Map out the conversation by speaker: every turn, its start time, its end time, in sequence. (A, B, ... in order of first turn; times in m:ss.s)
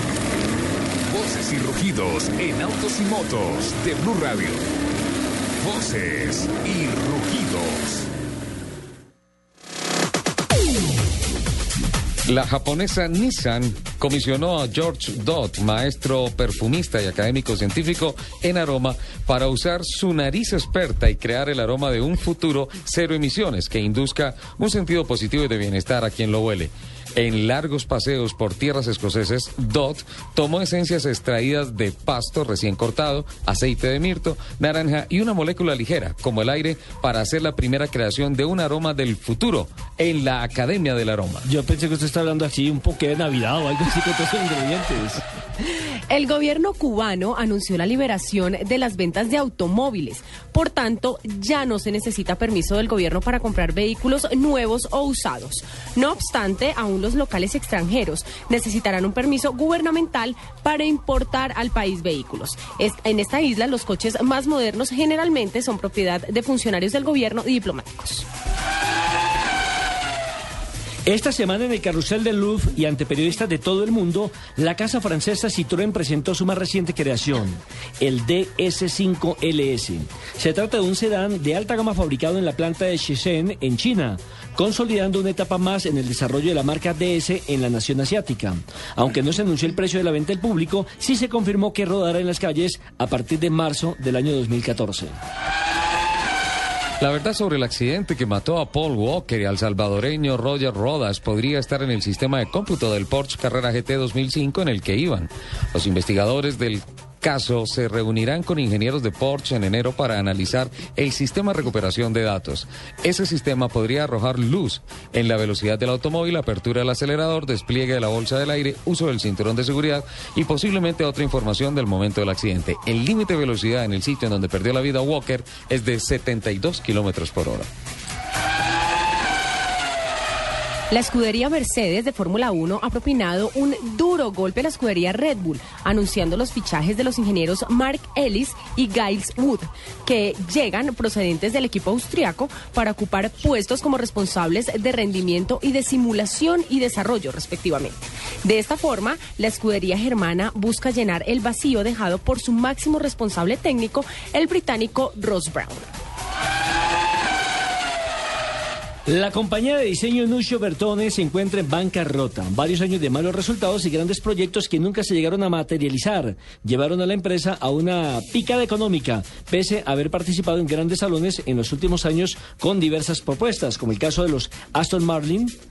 0:01.1-0:04.7 A
0:05.6-0:08.0 A
0:12.3-0:41.5 B
0:41.4-0:45.2 C
0:46.1-1:08.2 D
1:11.0-1:35.1 C
1:37.0-2:07.7 B
2:10.9-2:35.9 D
2:39.1-2:55.6 C